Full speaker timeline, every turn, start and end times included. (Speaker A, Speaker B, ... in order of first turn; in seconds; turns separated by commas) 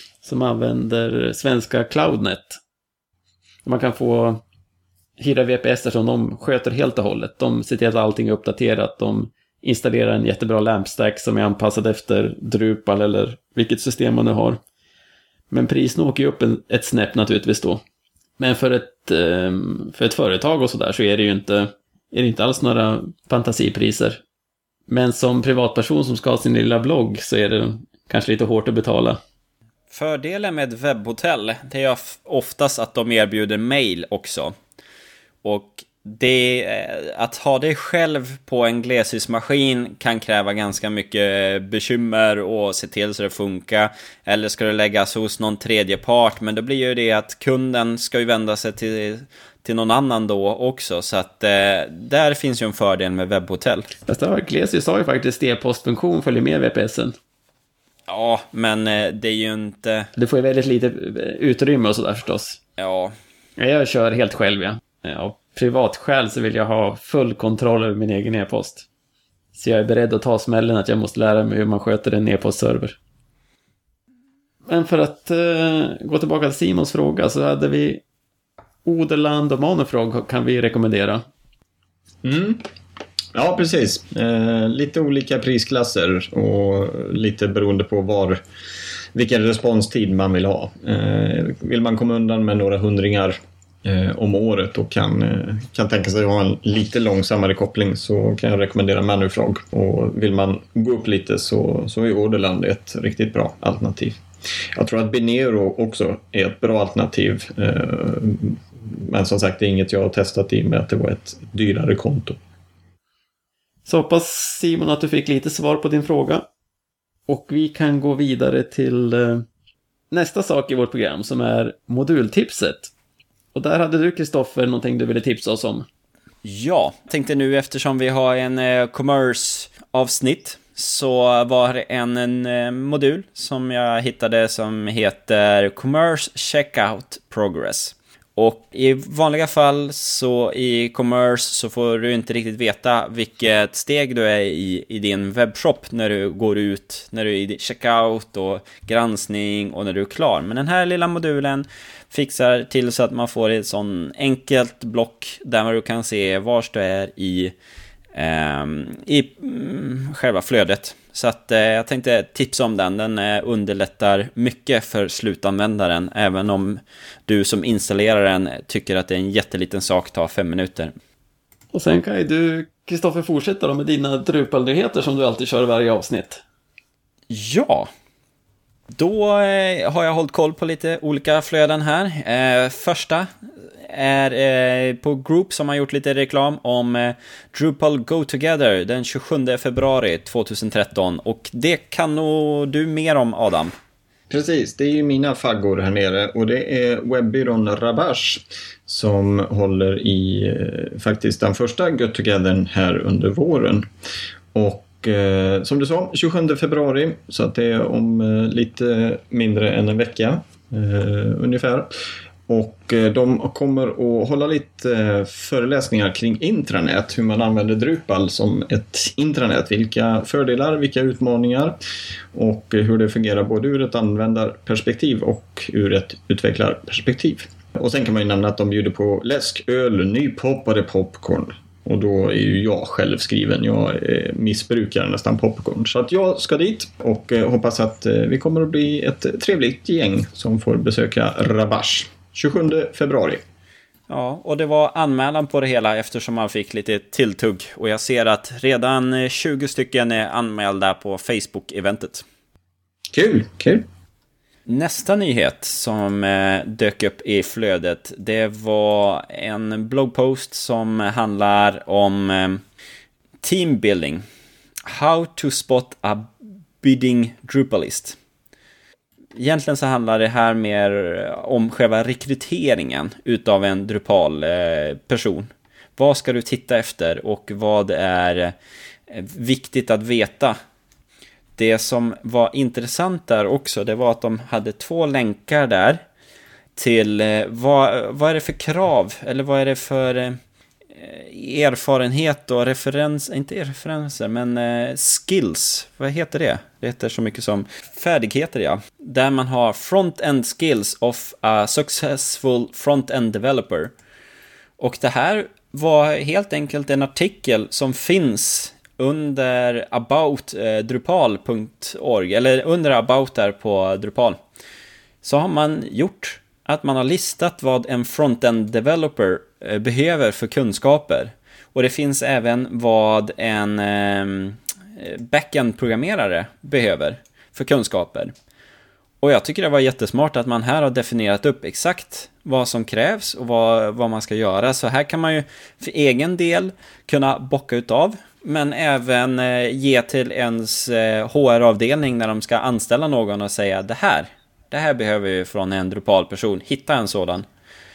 Speaker A: 0.2-2.6, Speaker A: 3.6-4.4, Speaker A: 5.2-14.6, Speaker A: 15.5-17.8, Speaker A: 18.4-24.2, Speaker A: 24.9-29.2, Speaker B: 29.9-34.5, Speaker B: 35.4-53.9, Speaker A: 54.1-57.2, Speaker B: 58.1-60.1, Speaker A: 60.2-62.6, Speaker B: 62.8-63.2, Speaker A: 63.6-68.9, Speaker A: 69.5-73.0, Speaker A: 74.7-78.0, Speaker A: 78.8-81.2, Speaker C: 82.2-82.6, Speaker C: 83.3-88.4, Speaker C: 89.1-104.2, Speaker C: 104.8-112.4, Speaker A: 113.9-116.5, Speaker A: 117.3-119.5, Speaker A: 120.1-122.9, Speaker A: 123.5-125.9, Speaker B: 126.4-157.5, Speaker B: 158.1-170.9, Speaker A: 171.7-176.4, Speaker B: 177.3-177.9, Speaker B: 178.9-183.3, Speaker B: 183.8-193.7, Speaker C: 194.3-203.9, Speaker C: 204.5-211.9, Speaker C: 212.5-221.8, Speaker C: 222.3-243.4, Speaker B: 244.1-252.2, Speaker C: 253.1-253.9, Speaker B: 254.7-262.6, Speaker B: 263.4-264.2, Speaker B: 264.9-266.3, Speaker B: 266.8-268.2, Speaker B: 269.4-278.5, Speaker B: 279.1-280.6, Speaker B: 281.6-286.0, Speaker B: 286.7-290.4, Speaker B: 290.9-303.9, Speaker B: 304.8-314.4, Speaker B: 315.2-328.3, Speaker B: 329.2-347.4